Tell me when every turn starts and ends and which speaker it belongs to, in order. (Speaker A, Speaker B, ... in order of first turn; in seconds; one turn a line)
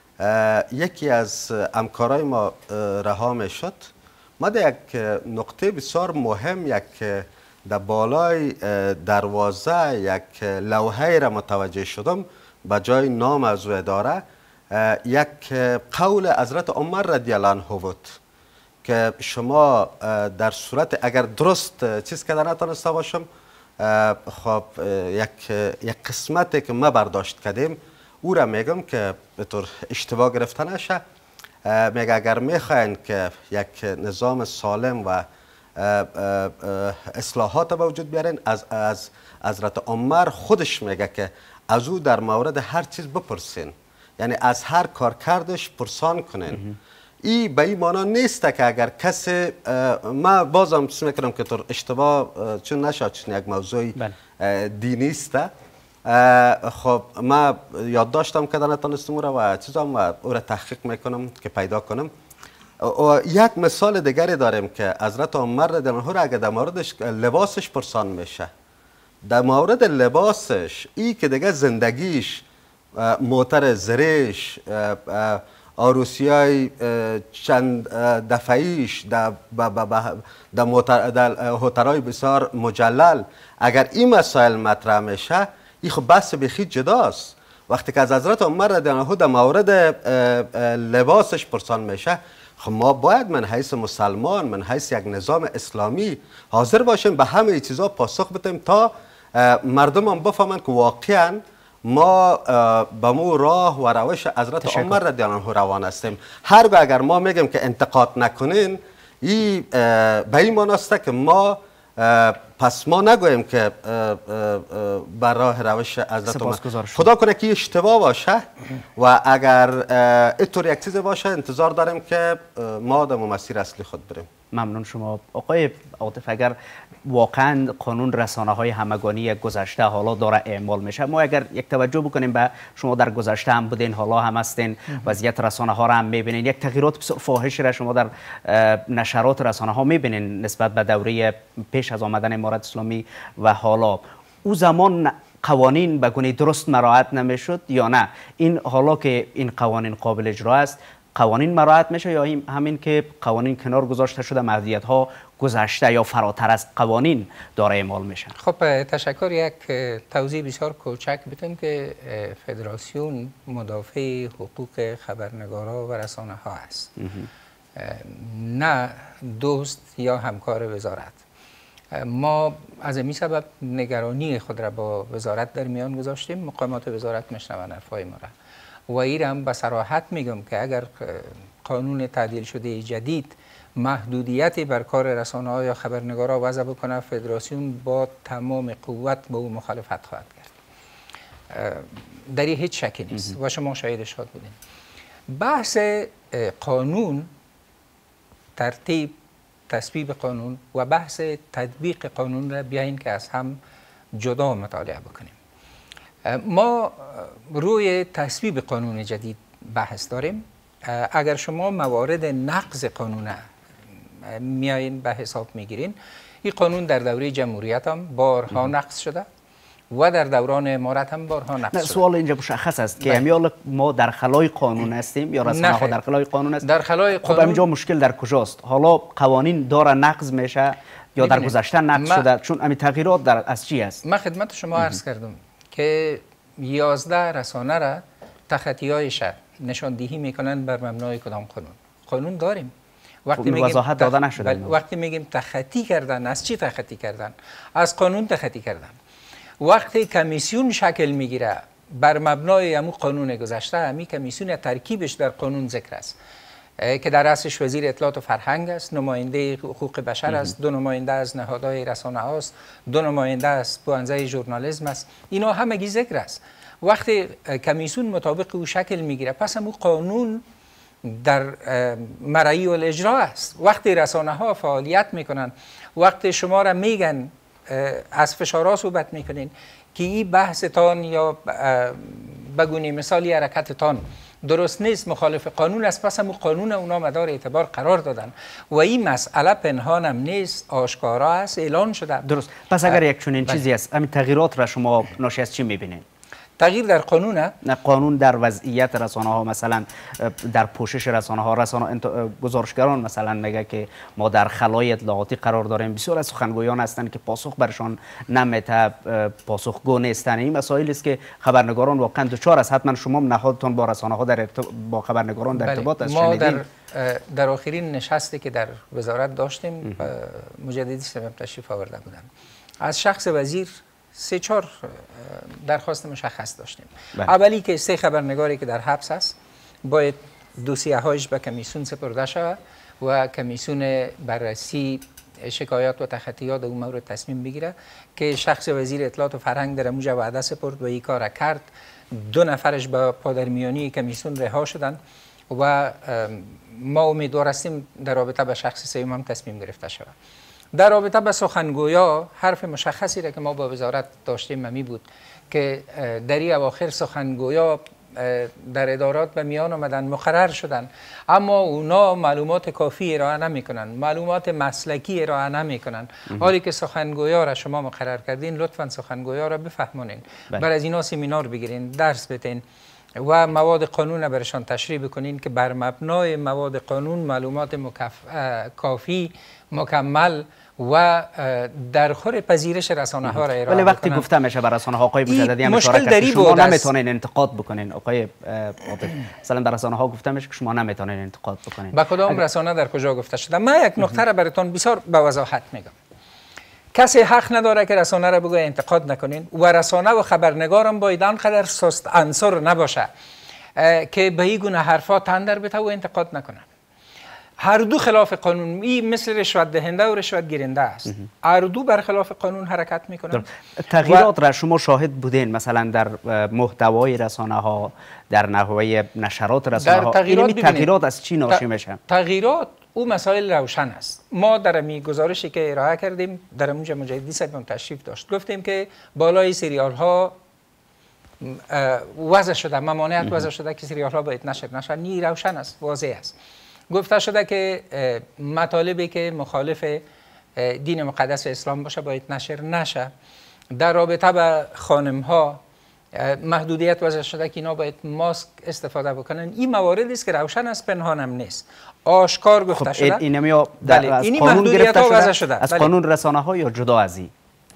Speaker A: 0.2-18.2
Speaker A: 18.8-23.3
Speaker A: 23.8-31.0
Speaker A: 31.6-46.6
Speaker A: 47.2-55.5
Speaker A: 56.0-62.1
Speaker A: 62.8-68.5
Speaker A: 69.2-72.4
Speaker A: 72.9-124.3
Speaker B: 104.6-105.0
Speaker B: 116.3-117.1
Speaker B: 124.5-158.3
Speaker C: 158.4-166.9
Speaker B: 167.0-167.3
Speaker C: 167.8-171.2
Speaker C: 171.9-178.3
Speaker C: 178.9-190.5
Speaker C: 191.5-194.6
Speaker C: 195.3-197.3
Speaker C: 198.6-199.2
Speaker C: 199.7-203.6
Speaker C: 204.2-205.3
Speaker C: 206.2-213.4
Speaker C: 214.2-219.2
Speaker C: 219.9-222.0
Speaker B: 221.7-226.7
Speaker C: 225.5-226.0
Speaker C: 226.6-227.7
Speaker B: 227.2-234.0
Speaker C: 231.2-232.2
Speaker C: 234.0-242.7
Speaker C: 243.2-248.9
Speaker B: 243.4-244.8
Speaker C: 249.6-256.1
Speaker C: 256.8-270.4
Speaker C: 271.0-292.2
Speaker B: 292.2-296.0
Speaker C: 292.9-293.6
Speaker C: 296.6-297.5
Speaker B: 297.6-316.6
Speaker C: 315.6-322.3
Speaker C: 322.8-329.3
Speaker C: 329.9-345.0
Speaker C: 345.5-350.1
Speaker C: 350.7-372.6
Speaker C: 373.2-384.2
Speaker B: 383.2-392.4
Speaker C: 385.3-386.9
Speaker C: 391.9-395.9
Speaker C: 396.9-403.1
Speaker C: 403.8-406.6
Speaker C: 407.6-413.4
Speaker B: 413.3-422.0
Speaker C: 414.0-414.3
Speaker C: 419.8-420.9
Speaker C: 421.5-430.4
Speaker C: 431.4-436.3
Speaker C: 436.9-440.0
Speaker C: 440.6-443.1
Speaker C: 443.7-445.6
Speaker C: 446.1-453.2
Speaker B: 452.7-457.3
Speaker C: 453.8-455.9